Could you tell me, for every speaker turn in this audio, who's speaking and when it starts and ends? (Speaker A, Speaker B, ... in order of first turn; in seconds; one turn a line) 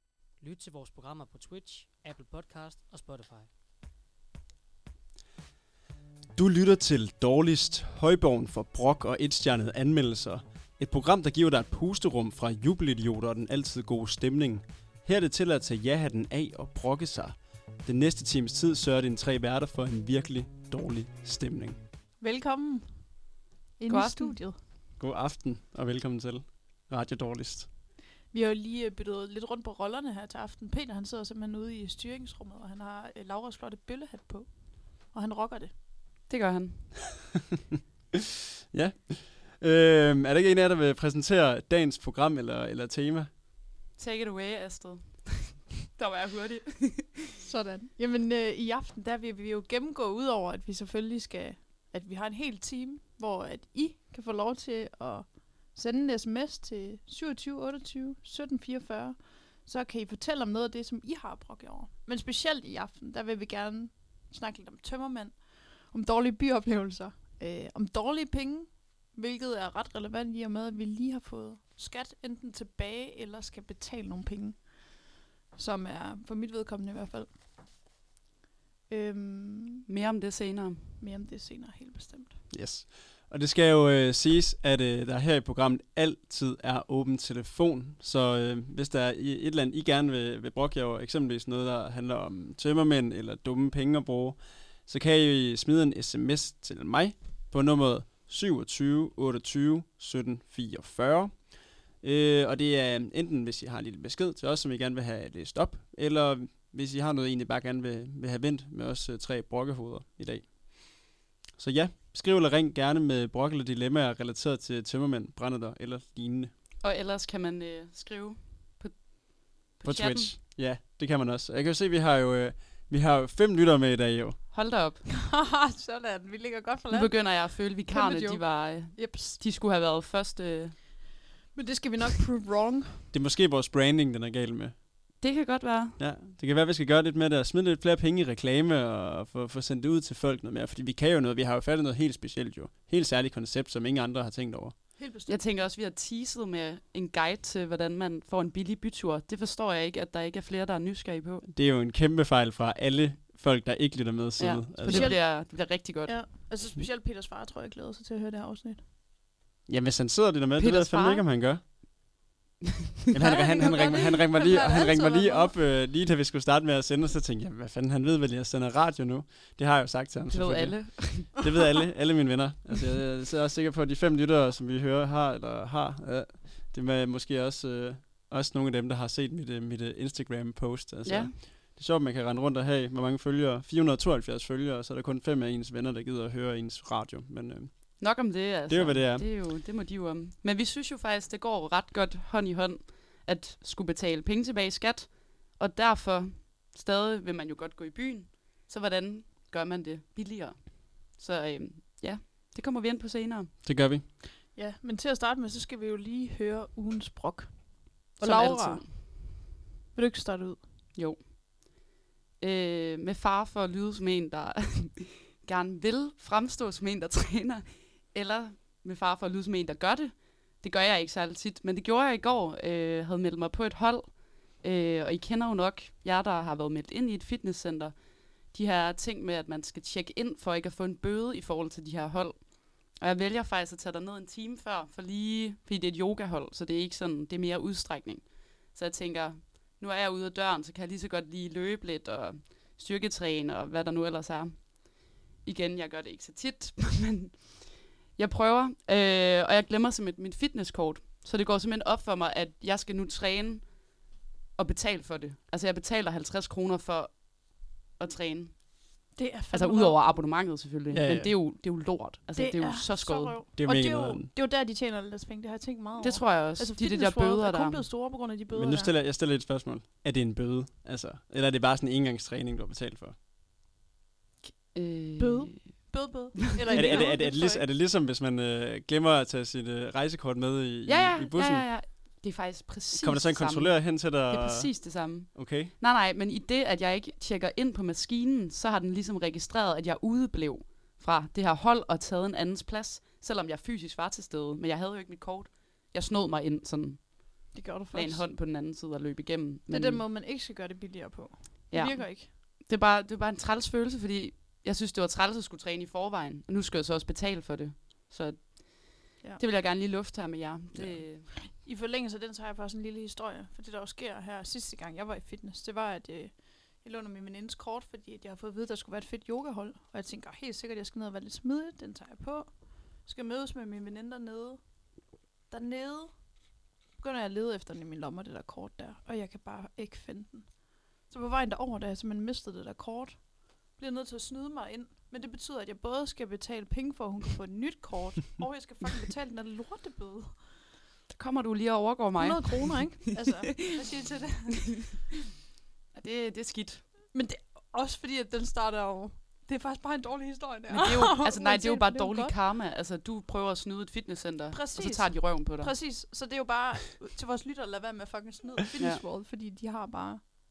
Speaker A: 0.4-3.5
Speaker B: 6.3-21.8
Speaker C: 22.2-22.9
Speaker C: 23.8-24.6
Speaker D: 23.9-24.4
Speaker B: 25.0-27.7
Speaker C: 28.3-35.7
Speaker D: 36.3-37.0
Speaker B: 38.7-43.3
Speaker D: 44.0-47.2
Speaker C: 47.4-75.0
Speaker C: 75.5-77.3
Speaker C: 78.9-79.8
Speaker D: 79.9-81.0
Speaker C: 81.0-82.4
Speaker B: 82.5-116.5
Speaker D: 116.8-120.3
Speaker B: 119.8-124.4
Speaker D: 124.5-125.0
Speaker C: 125.3-129.4
Speaker D: 126.9-130.8
Speaker C: 131.5-133.0
Speaker B: 133.1-134.8
Speaker D: 135.2-136.0
Speaker B: 136.0-144.8
Speaker C: 145.0-145.4
Speaker D: 145.3-151.4
Speaker B: 151.5-155.1
Speaker D: 154.4-156.2
Speaker C: 154.9-158.8
Speaker B: 159.7-161.6
Speaker D: 160.6-161.2
Speaker D: 163.1-163.4
Speaker B: 163.1-188.0
Speaker C: 163.2-165.5
Speaker D: 170.3-171.5
Speaker D: 181.1-181.3
Speaker D: 188.0-203.5
Speaker B: 188.7-189.3
Speaker B: 203.6-204.0
Speaker C: 204.5-209.2
Speaker D: 208.2-208.9
Speaker C: 209.9-210.6
Speaker D: 210.9-211.3
Speaker D: 212.4-254.0
Speaker D: 254.6-258.8
Speaker C: 259.1-260.0
Speaker D: 259.5-263.4
Speaker B: 260.9-261.3
Speaker C: 262.3-268.9
Speaker B: 263.6-264.3
Speaker D: 266.0-267.8
Speaker B: 268.5-273.1
Speaker D: 274.4-275.9
Speaker C: 275.2-277.6
Speaker D: 276.7-277.1
Speaker B: 276.7-281.7
Speaker D: 280.9-300.0
Speaker B: 283.0-285.7
Speaker C: 297.5-298.2
Speaker C: 299.7-302.3
Speaker D: 301.7-311.3
Speaker C: 311.5-324.6
Speaker C: 325.5-326.2
Speaker C: 327.0-340.4
Speaker D: 341.1-343.6
Speaker C: 342.2-344.7
Speaker D: 345.9-346.9
Speaker C: 347.1-352.3
Speaker D: 350.7-355.7
Speaker C: 354.5-360.3